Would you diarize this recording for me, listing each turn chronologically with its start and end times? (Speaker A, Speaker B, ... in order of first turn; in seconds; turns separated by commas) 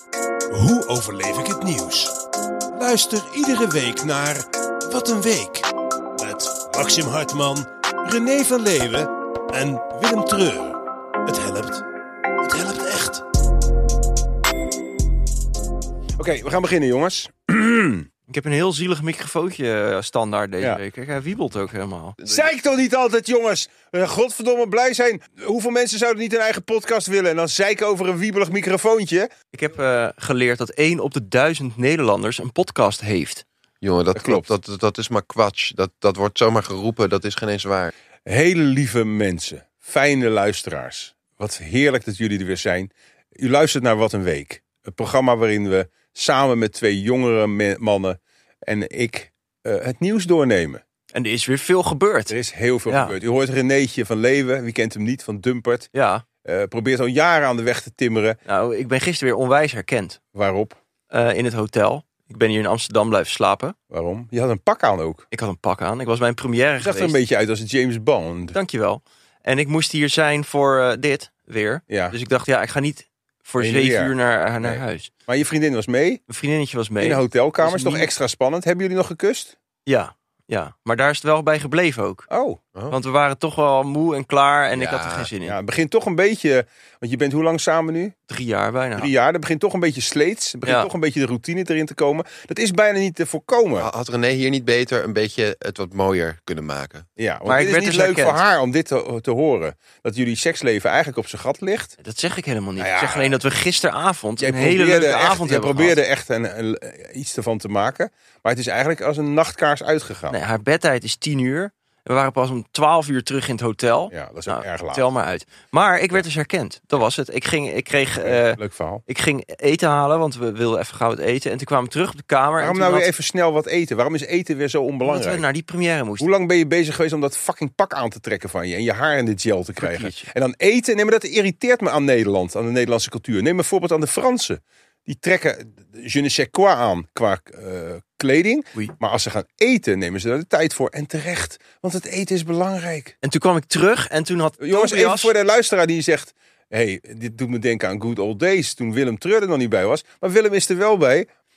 Speaker A: 0.5-2.1, Speaker A: 2.7-11.8, Speaker A: 12.4-13.2, Speaker A: 16.2-18.1, Speaker B: 18.3-22.2, Speaker C: 22.2-22.5, Speaker A: 22.2-29.3, Speaker B: 29.5-33.4, Speaker C: 33.8-37.9, Speaker A: 34.1-34.5, Speaker A: 38.2-50.8, Speaker B: 51.1-52.3, Speaker A: 52.3-55.9, Speaker B: 52.9-53.1, Speaker B: 55.9-56.2, Speaker A: 56.4-58.4, Speaker B: 58.5-60.2, Speaker A: 60.3-60.8, Speaker B: 61.1-63.8, Speaker A: 63.9-65.2, Speaker B: 65.3-67.2, Speaker A: 66.8-68.6, Speaker B: 68.5-75.1, Speaker A: 71.9-72.2, Speaker A: 73.6-76.2, Speaker B: 76.3-78.1, Speaker A: 77.0-79.5, Speaker B: 79.8-82.3, Speaker A: 82.3-82.6, Speaker B: 82.9-85.5, Speaker C: 84.7-85.3, Speaker A: 85.4-88.1, Speaker B: 88.3-89.1, Speaker A: 89.0-93.9, Speaker C: 93.8-97.1, Speaker A: 97.2-102.0, Speaker B: 97.5-98.4, Speaker B: 102.0-106.0, Speaker A: 102.8-103.3, Speaker A: 104.4-110.4, Speaker B: 110.3-123.1, Speaker A: 114.1-115.0, Speaker A: 118.2-119.0, Speaker A: 122.6-125.4, Speaker B: 125.0-126.3, Speaker A: 126.2-143.2, Speaker B: 129.8-130.3, Speaker B: 143.2-145.3, Speaker A: 144.6-151.3